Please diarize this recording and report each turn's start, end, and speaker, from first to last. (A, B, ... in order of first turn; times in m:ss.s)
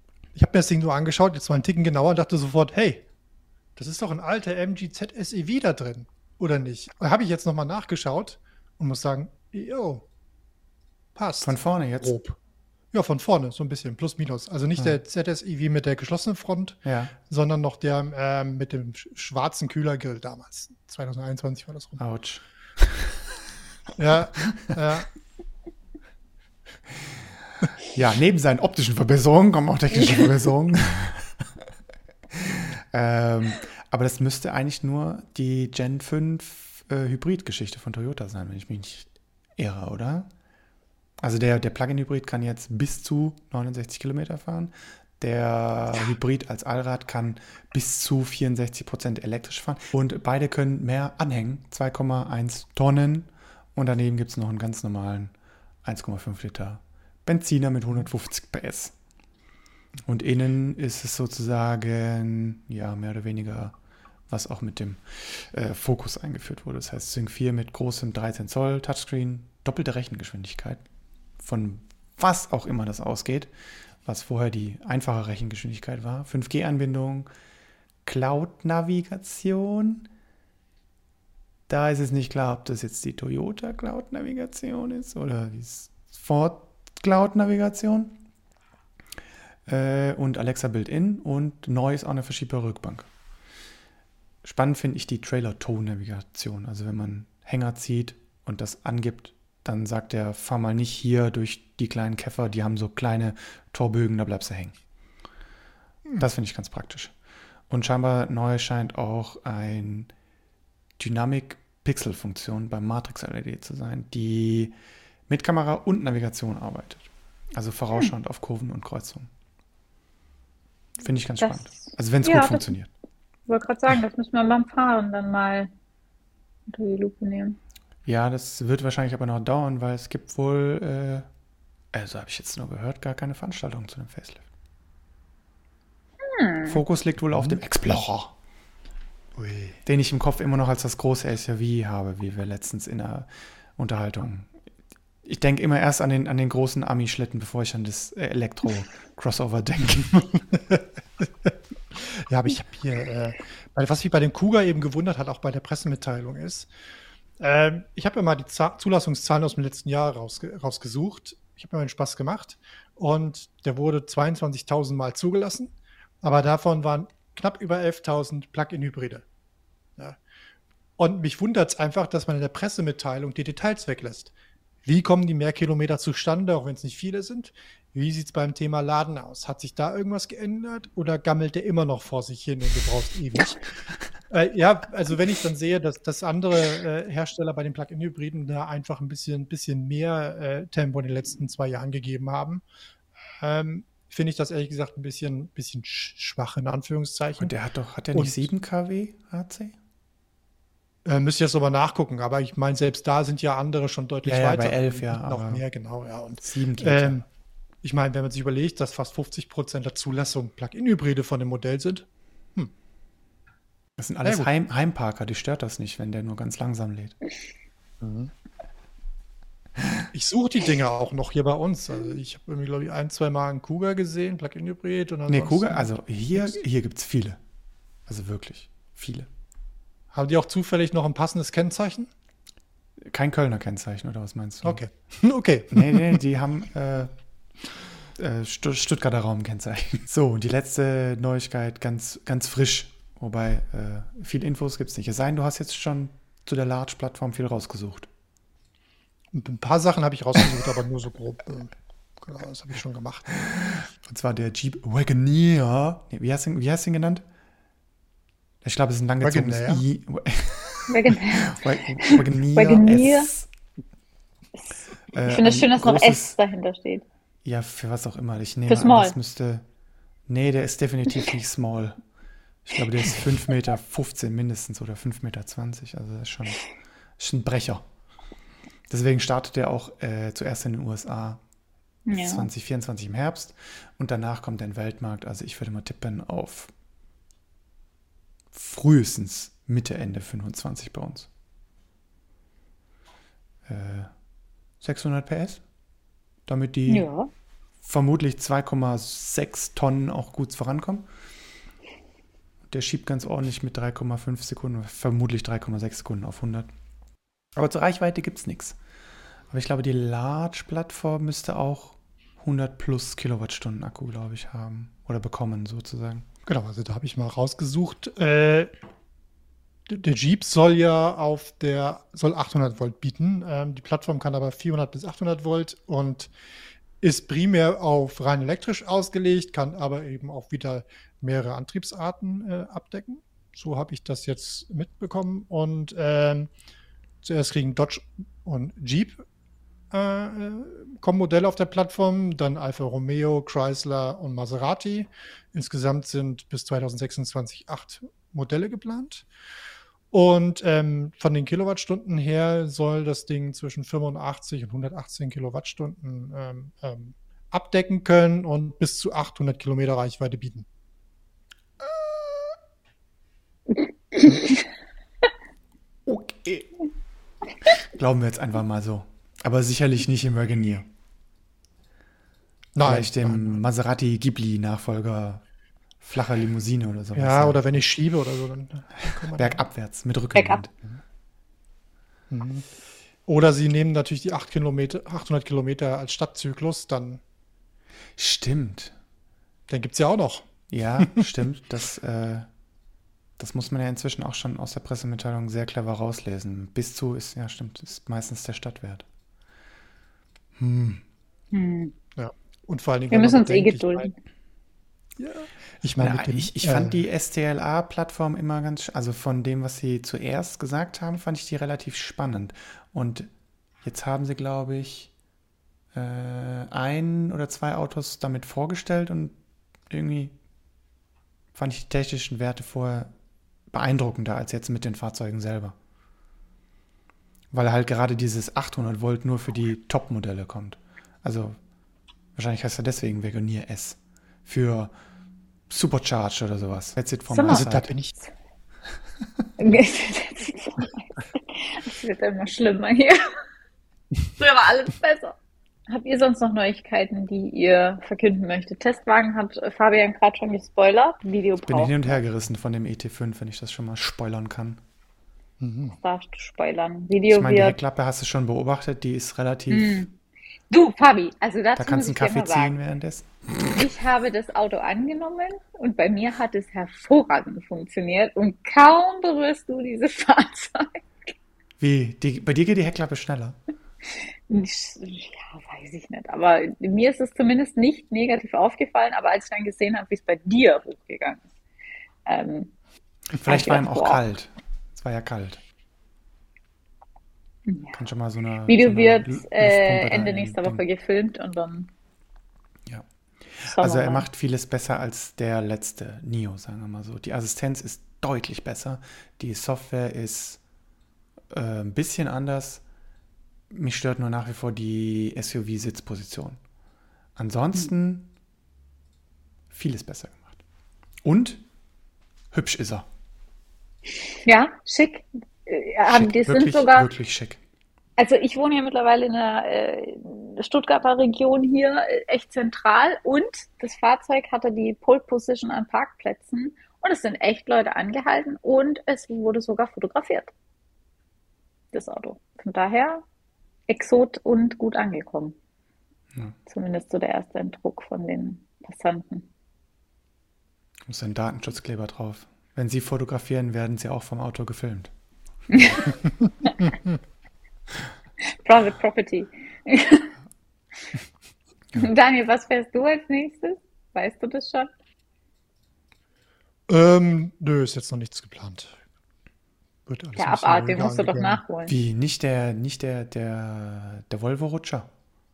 0:00.4-0:03.0 A
0:03.8-0:10.0 A
0:11.2-0:12.4 A
0:11.4-0:12.2 B
0:12.9-0:22.0 A
0:16.8-0:17.1 B
0:22.0-0:23.2 B
0:24.0-0:25.1 A
0:27.9-0:31.6 B
0:32.3-0:40.3 B
0:41.2-0:55.3 B
0:55.8-0:59.0 B
1:00.1-1:03.8 B
1:04.3-1:10.8 B
1:11.4-1:13.5 B
1:14.0-1:17.3 B
1:18.0-1:20.1 B
1:21.7-1:28.2 B
1:29.7-1:33.1 B
1:34.4-1:44.8 B
1:46.2-1:47.1 B
1:47.7-1:50.1 B
1:51.0-1:54.7 B
1:55.3-1:59.3 B
2:01.0-2:02.9 B
2:01.4-2:02.7 C
2:03.5-2:05.7 C
2:06.7-2:07.6 C
2:08.1-2:11.3 B
2:11.9-2:14.4 B
2:16.2-2:16.8 C
2:16.7-2:18.3 B
2:19.4-2:19.8 A
2:19.9-2:24.5 B
2:25.2-2:30.6 B
2:31.4-2:36.7 A
2:37.4-2:49.2 A
2:51.0-2:54.3 A
2:54.8-3:03.6 A
3:04.3-3:12.6 A
3:13.4-3:17.5 A
3:17.4-3:19.8 B
3:18.1-3:18.5 A
3:21.0-3:27.3 A
3:24.3-3:25.6 B
3:26.4-3:27.2 B
3:27.8-3:32.7 A
3:34.0-3:37.2 B
3:34.2-3:34.5 A
3:38.0-3:38.3 A
3:40.1-3:45.9 A
3:45.3-3:47.4 B
3:48.1-3:49.3 B
3:50.1-3:52.1 A
3:53.0-3:54.8 B
3:54.6-3:56.2 A
3:55.7-3:57.1 B
3:58.2-4:08.1 B
4:09.3-4:13.5 A
4:13.7-4:17.2 B
4:18.6-4:23.5 B
4:19.2-4:19.8 A
4:20.9-4:23.3 C
4:25.1-4:26.4 B
4:25.3-4:27.0 C
4:27.4-4:29.6 B
4:28.7-4:29.2 C
4:30.3-4:32.0 B
4:32.6-4:36.6 B
4:37.2-4:37.8 B
4:38.9-4:41.4 B
4:42.1-4:42.5 C
4:42.1-4:46.7 B
4:48.5-4:51.3 B
4:53.7-4:54.1 B
4:54.8-4:55.6 B
4:56.5-4:57.1 B
4:56.9-4:57.3 C
4:57.8-5:01.1 B
5:02.7-5:06.7 B
5:07.6-5:08.8 B
5:09.5-5:16.3 B
5:16.5-5:18.7 A
5:19.9-5:26.3 A
5:27.0-5:36.5 A
5:37.2-5:39.2 A
5:39.9-5:49.3 A
5:50.1-6:00.7 A
6:01.8-6:02.5 B
6:03.8-6:04.6 C
6:06.1-6:06.7 B
6:07.8-6:10.9 B
6:12.8-6:13.6 A
6:12.8-6:15.4 B
6:16.0-6:17.7 B
6:17.2-6:19.6 A
6:19.1-6:20.7 B
6:20.4-6:20.6 C
6:22.3-6:22.7 A
6:23.3-6:27.2 A
6:28.2-6:29.0 B
6:29.7-6:30.5 A
6:30.7-6:32.5 B
6:33.4-6:39.1 B
6:40.6-6:41.0 B
6:41.5-6:42.0 C
6:42.2-6:44.1 A
6:43.1-6:44.1 C
6:45.2-6:47.0 A
6:46.0-6:53.3 B
6:53.8-6:55.1 B
6:55.9-6:59.3 B
6:59.9-7:00.4 B
7:01.6-7:03.1 B
7:03.7-7:05.8 B
7:07.5-7:11.6 B
7:12.4-7:14.9 B
7:15.7-7:17.9 B
7:17.3-7:17.7 C
7:17.5-7:18.1 A
7:19.6-7:23.3 C
7:24.4-7:25.4 C
7:25.9-7:32.2 C
7:31.6-7:34.8 B
7:35.6-7:36.0 A
7:36.0-7:37.8 C
7:37.3-7:40.1 B
7:39.7-7:40.1 C
7:40.7-7:42.8 C
7:41.8-7:43.9 B
7:43.7-7:51.3 C
7:51.8-7:53.6 B
7:54.5-8:01.4 C
8:02.3-8:02.7 C
8:03.3-8:05.6 B
8:03.4-8:04.2 C
8:07.7-8:08.0 C
8:07.9-8:10.8 B
8:08.7-8:11.9 C
8:12.9-8:20.6 B
8:13.7-8:14.2 C
8:21.5-8:22.8 B
8:23.7-8:26.6 B
8:27.4-8:28.3 B
8:29.7-8:30.6 B
8:31.2-8:31.6 B
8:32.5-8:33.1 B
8:34.4-8:37.1 C
8:36.1-8:37.6 B
8:38.2-8:50.5 C
8:51.9-8:53.2 C
8:53.9-8:55.6 C
8:56.7-8:59.5 C
9:01.1-9:05.1 B
9:05.7-9:06.2 C
9:06.5-9:07.1 A
9:08.5-9:10.3 C
9:12.0-9:14.9 C
9:16.9-9:19.0 A
9:20.1-9:21.6 A
9:20.4-9:21.9 C
9:21.9-9:25.1 B